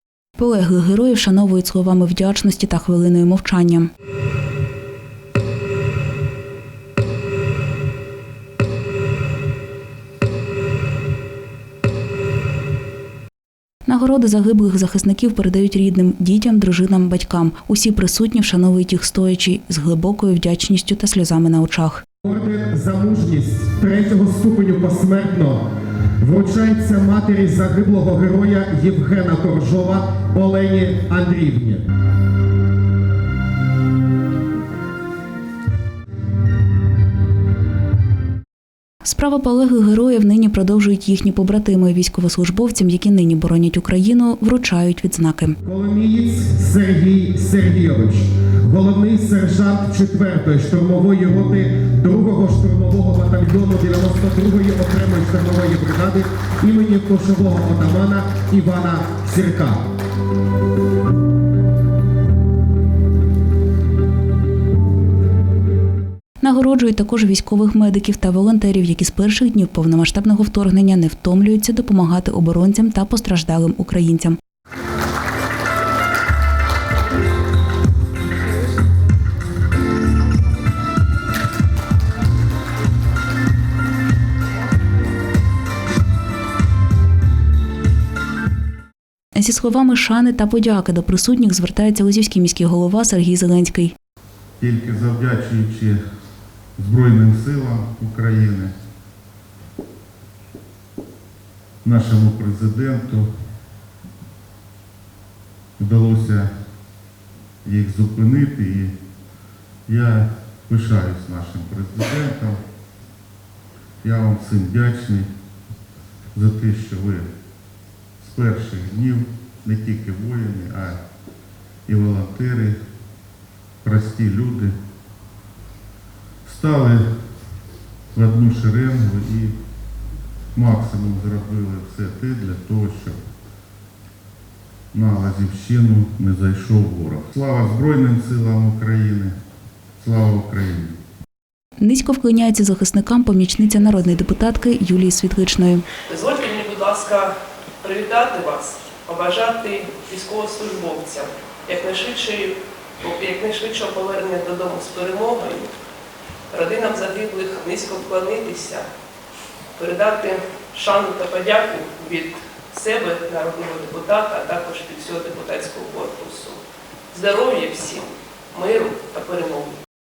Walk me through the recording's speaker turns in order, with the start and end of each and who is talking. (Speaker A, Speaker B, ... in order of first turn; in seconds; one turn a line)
Speaker A: 0.4-3.9
Speaker A: 13.9-22.0
Speaker B: 22.2-25.7
Speaker B: 26.2-31.9
Speaker A: 39.0-45.6
Speaker B: 45.6-59.9
Speaker A: 66.4-74.4
Speaker A: 89.3-93.9
Speaker C: 94.6-96.0
Speaker C: 96.8-98.8
Speaker C: 101.8-103.3
Speaker C: 105.8-106.5
Speaker C: 107.6-109.0
Speaker C: 109.9-112.6
Speaker C: 114.0-115.3
Speaker C: 116.3-117.3
Speaker C: 118.2-121.0
Speaker C: 121.9-122.8
Speaker C: 123.8-124.8
Speaker C: 126.5-127.1
Speaker C: 128.1-129.6
Speaker C: 130.6-133.2
Speaker C: 134.9-139.4
Speaker C: 140.0-141.0
Speaker A: 141.8-145.8
Speaker D: 146.1-155.7
Speaker D: 156.5-158.9
Speaker D: 159.8-166.6
Speaker D: 167.1-169.8